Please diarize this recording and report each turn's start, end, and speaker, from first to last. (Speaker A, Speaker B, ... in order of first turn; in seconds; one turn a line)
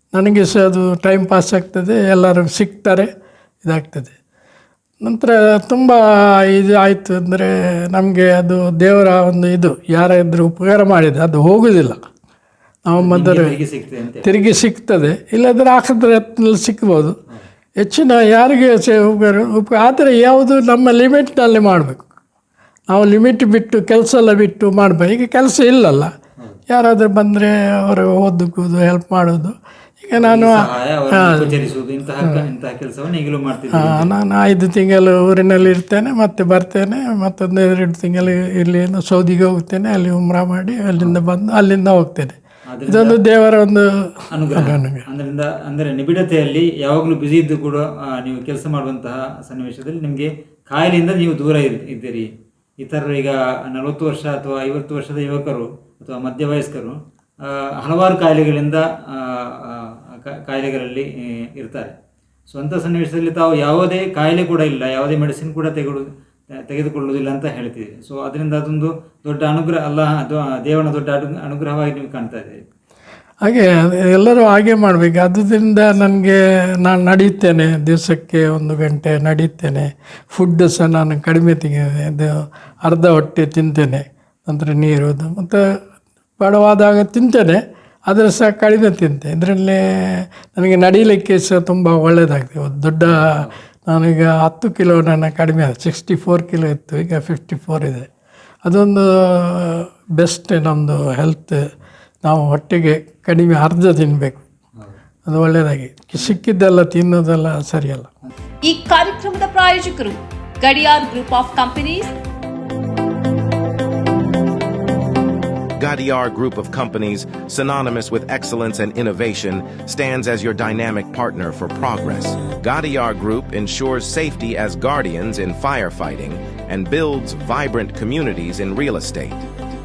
Speaker A: 0.1-3.1
Speaker A: 3.6-4.2
Speaker A: 5.0-12.0
Speaker A: 12.9-13.6
Speaker B: 13.0-14.3
Speaker A: 14.2-17.2
Speaker A: 17.8-22.0
Speaker A: 22.9-26.1
Speaker A: 26.7-31.6
Speaker B: 30.2-34.1
Speaker A: 33.7-42.4
Speaker B: 42.7-43.2
Speaker A: 42.9-45.0
Speaker B: 44.3-52.3
Speaker B: 52.8-61.9
Speaker B: 62.5-66.0
Speaker B: 66.6-72.6
Speaker A: 73.4-85.6
Speaker A: 86.4-98.1
Speaker B: 93.0-93.6
Speaker A: 98.6-101.7
Speaker A: 102.2-104.4
Speaker A: 105.2-108.1
Speaker C: 108.7-112.1
Speaker D: 115.8-129.4